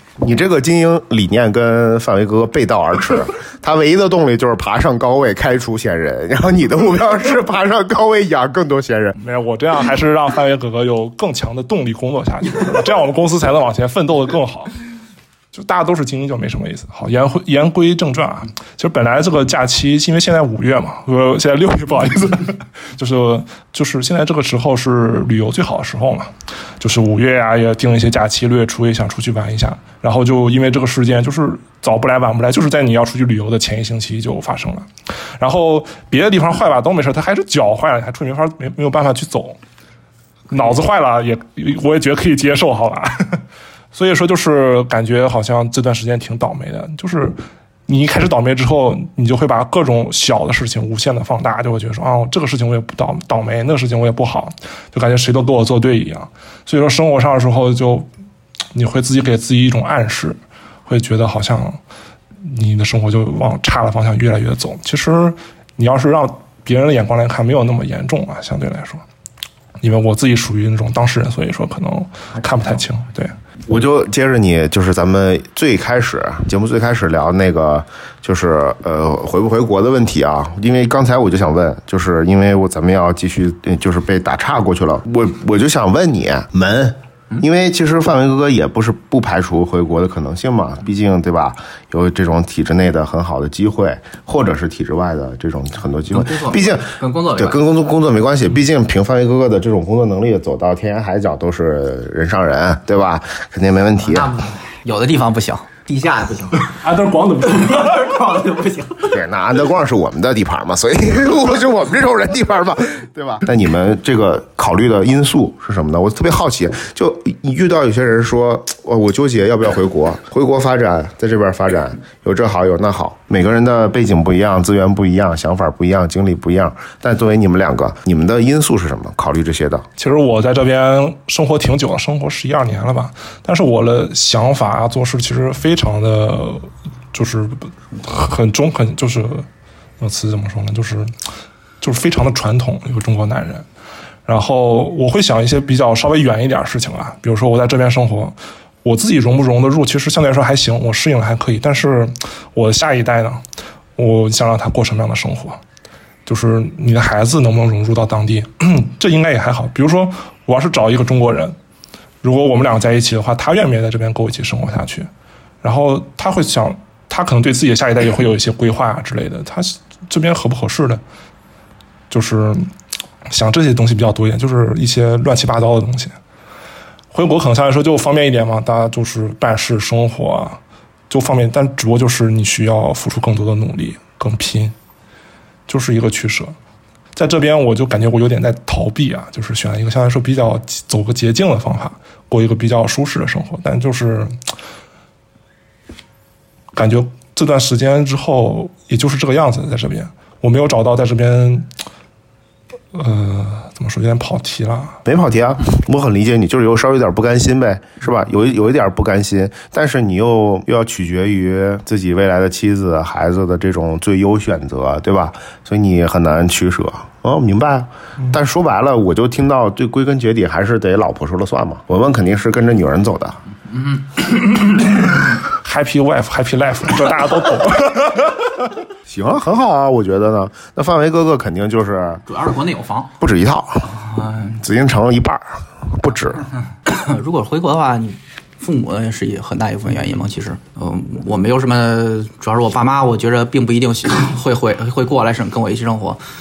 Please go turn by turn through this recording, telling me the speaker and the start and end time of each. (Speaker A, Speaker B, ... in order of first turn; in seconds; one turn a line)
Speaker A: 0.2-9.2
Speaker B: 9.2-14.7
Speaker B: 15.5-34.9
Speaker B: 35.4-39.6
Speaker B: 40.5-58.1
Speaker B: 58.7-61.8
Speaker B: 62.4-69.0
Speaker B: 69.8-73.3
Speaker A: 73.7-104.3
Speaker C: 96.1-97.6
Speaker C: 104.0-106.7
Speaker B: 106.7-108.0
Speaker C: 107.6-109.1
Speaker A: 109.1-129.8
Speaker B: 130.0-139.5
Speaker B: 140.0-141.1
Speaker B: 141.8-143.7
Speaker B: 144.2-153.4
Speaker B: 154.0-155.6
Speaker B: 156.2-161.6
Speaker B: 162.2-165.1
Speaker B: 165.6-171.0
Speaker B: 172.1-172.7
Speaker B: 173.3-176.2
Speaker B: 177.1-184.7
Speaker B: 185.7-186.6
Speaker B: 187.1-194.4
Speaker B: 196.7-201.7
Speaker B: 202.9-205.0
Speaker A: 205.1-223.4
Speaker B: 225.0-228.4
Speaker A: 229.1-232.2
Speaker C: 232.2-233.1
Speaker A: 233.2-234.0
Speaker C: 234.2-234.6
Speaker A: 234.6-236.4
Speaker C: 236.8-246.2